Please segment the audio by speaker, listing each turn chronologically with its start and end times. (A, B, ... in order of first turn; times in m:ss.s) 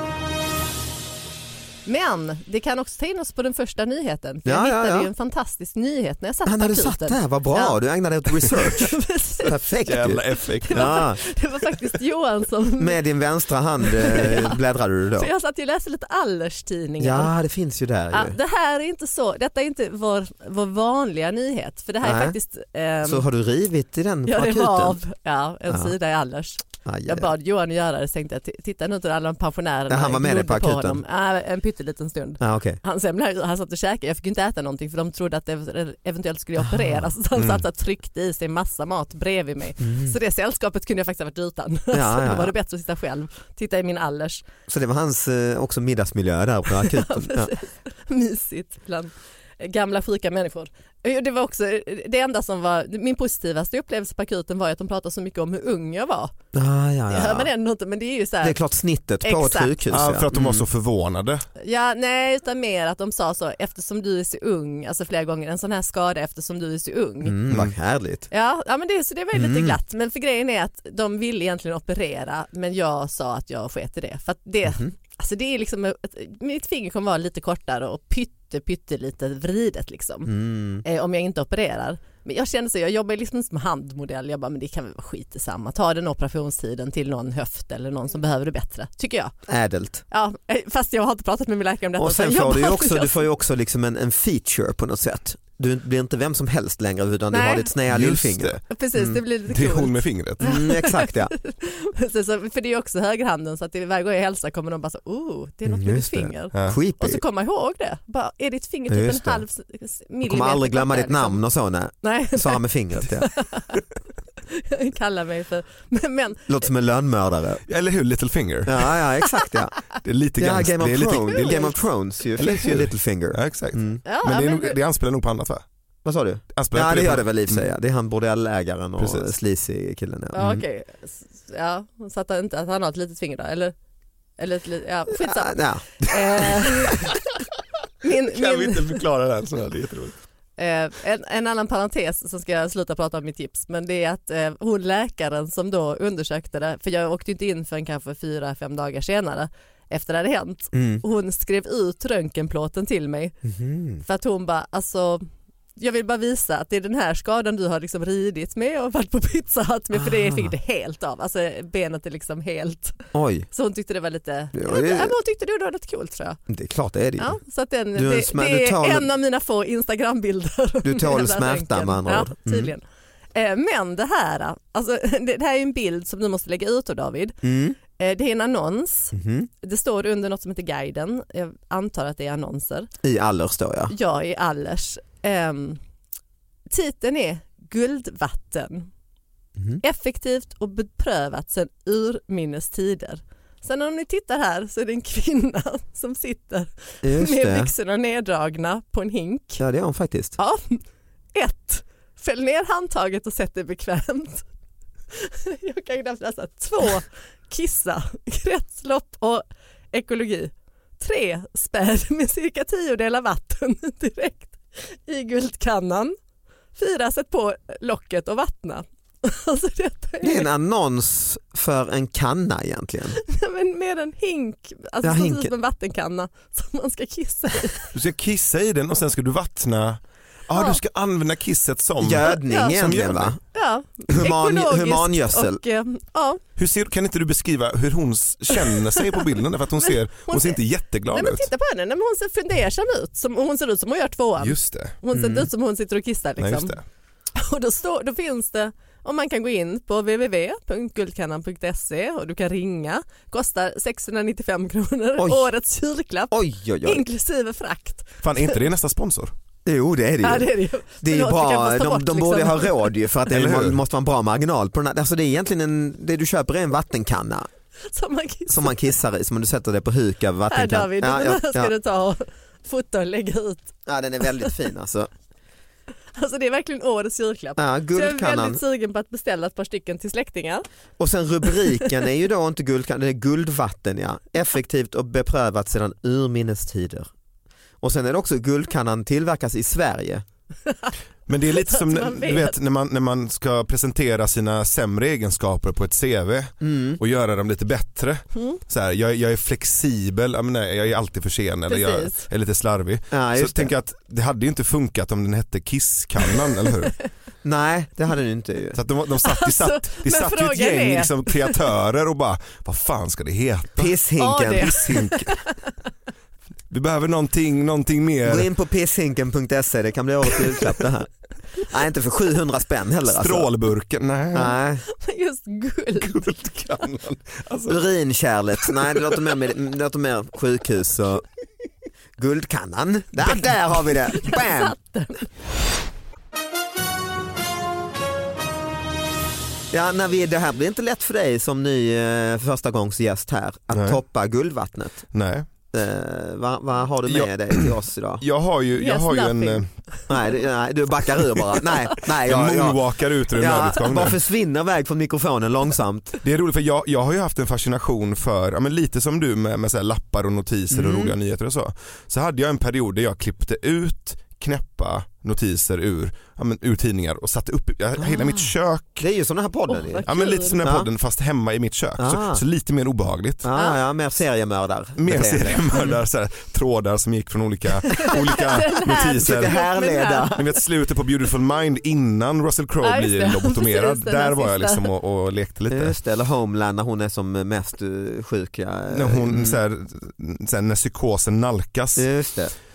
0:01.8-0:07.8 A
0:04.4-0:05.1 B
0:06.4-0:11.2 B
0:08.5-0:10.0 A
0:09.8-0:11.0 C
0:10.6-0:13.0 A
0:12.8-0:15.3 B
0:13.8-0:14.6 A
0:15.2-0:17.3 A
0:17.0-0:18.4 B
0:18.1-0:23.2 A
0:22.0-0:22.4 B
0:23.0-0:25.0 B
0:24.2-0:44.4 A
0:26.8-0:27.3 B
0:29.9-0:31.0 B
0:32.4-0:32.8 B
0:36.6-0:36.9 B
0:37.3-0:37.6 C
0:39.8-0:40.2 B
0:41.9-0:42.5 B
0:44.7-0:47.5 B
0:46.8-0:56.3 A
0:56.5-0:57.5 B
0:57.1-0:58.6 A
0:58.4-1:00.6 B
0:59.2-0:59.9 A
0:59.9-1:01.5 C
1:01.6-1:07.4 A
1:07.2-1:08.3 B
1:08.3-1:29.3 A
1:09.3-1:09.8 B
1:20.2-1:20.8 B
1:29.5-1:30.0 B
1:30.1-1:33.1 A
1:32.0-1:39.2 B
1:37.3-1:37.8 A
1:37.8-1:38.6 C
1:38.6-1:51.4 A
1:39.5-1:40.4 C
1:40.4-1:41.3 B
1:45.6-1:47.2 B
1:48.9-1:49.4 B
1:50.2-1:53.3 B
1:52.0-1:53.8 A
1:54.5-1:56.5 A
1:56.5-1:57.6 B
1:57.7-1:58.9 C
1:58.6-1:59.7 B
2:00.0-2:01.7 C
2:00.4-2:04.0 B
2:01.3-2:01.7 A
2:02.4-2:05.6 C
2:04.0-2:04.8 A
2:06.0-2:10.6 B
2:06.5-2:07.7 C
2:09.0-2:09.3 C
2:10.3-2:13.7 A
2:14.4-2:17.1 A
2:15.2-2:16.2 B
2:18.0-2:18.9 A
2:18.2-2:20.2 C
2:20.6-2:33.4 A
2:30.7-2:31.0 B
2:33.4-2:34.0 B
2:34.0-2:35.2 A
2:35.8-2:46.4 A
2:40.0-2:40.5 B
2:43.1-2:43.5 B
2:44.5-2:45.1 B
2:46.5-2:47.4 B
2:47.2-3:02.9 A
2:47.9-2:49.1 B
2:50.8-2:52.7 B
2:57.4-2:57.8 B
2:59.1-2:59.5 B
3:03.0-3:03.9 B
3:03.9-3:05.8 A
3:06.7-3:08.9 A
3:09.8-3:19.6 A
3:17.0-3:17.7 B
3:19.6-3:20.4 B
3:20.4-3:20.8 A
3:21.3-3:24.4 A
3:25.1-3:36.1 A
3:36.8-3:40.5 A
3:40.2-3:43.2 B
3:43.1-3:47.9 A
3:45.0-3:45.5 B
3:47.9-3:53.4 C
3:50.5-3:50.8 A
3:52.0-3:53.4 B
3:52.3-3:56.4 A
3:54.1-3:55.6 B
3:56.6-4:01.5 C
3:59.8-4:00.6 A
4:01.1-4:06.8 A
4:04.4-4:05.0 C
4:05.1-4:05.5 B
4:06.4-4:06.8 C
4:07.4-4:18.5 A
4:15.2-4:15.5 B
4:16.3-4:17.0 B
4:18.2-4:19.3 C
4:19.6-4:20.5 B
4:20.2-4:22.9 A
4:21.0-4:27.5 B
4:23.3-4:23.8 C
4:27.9-4:28.8 A
4:28.5-4:31.7 B
4:30.5-4:33.8 A
4:33.9-4:35.1 B
4:36.2-4:40.6 A
4:37.6-4:38.6 B
4:41.0-4:47.1 B
4:47.8-4:50.2 B
4:51.3-5:07.0 C
4:51.5-4:52.5 A
4:56.6-4:57.0 B
5:01.7-5:02.3 A
5:03.1-5:03.7 B
5:07.4-5:08.8 B
5:08.7-5:14.0 C
5:09.2-5:11.6 A
5:13.8-5:14.8 B
5:14.2-5:15.6 A
5:14.5-5:15.3 C
5:16.7-5:18.5 C
5:18.2-5:21.1 B
5:21.6-5:23.5 B
5:23.1-5:24.6 C
5:24.3-5:24.8 B
5:24.8-5:26.1 A
5:26.0-5:27.8 C
5:27.7-5:31.2 B
5:28.8-5:29.2 C
5:32.2-5:34.7 B
5:34.1-5:35.2 A
5:39.7-5:45.0 B
5:43.7-5:44.0 C
5:45.1-5:45.5 C
5:45.7-5:48.2 B
5:47.1-5:47.7 C
5:48.2-5:49.7 C
5:48.7-5:50.1 A
5:50.1-5:56.2 B
5:52.2-5:54.2 C
5:56.2-6:09.0 C
6:00.7-6:01.1 B
6:08.0-6:08.4 B
6:09.0-6:10.0 B
6:09.7-6:10.6 A
6:10.0-6:13.5 C
6:10.6-6:10.9 B
6:12.0-6:12.4 B
6:13.4-6:16.0 B
6:15.0-6:19.5 C
6:17.9-6:20.4 A
6:19.1-6:20.4 B
6:20.3-6:25.9 C
6:22.8-6:24.9 A
6:25.7-6:29.6 B
6:28.9-6:32.0 C
6:32.0-6:32.5 B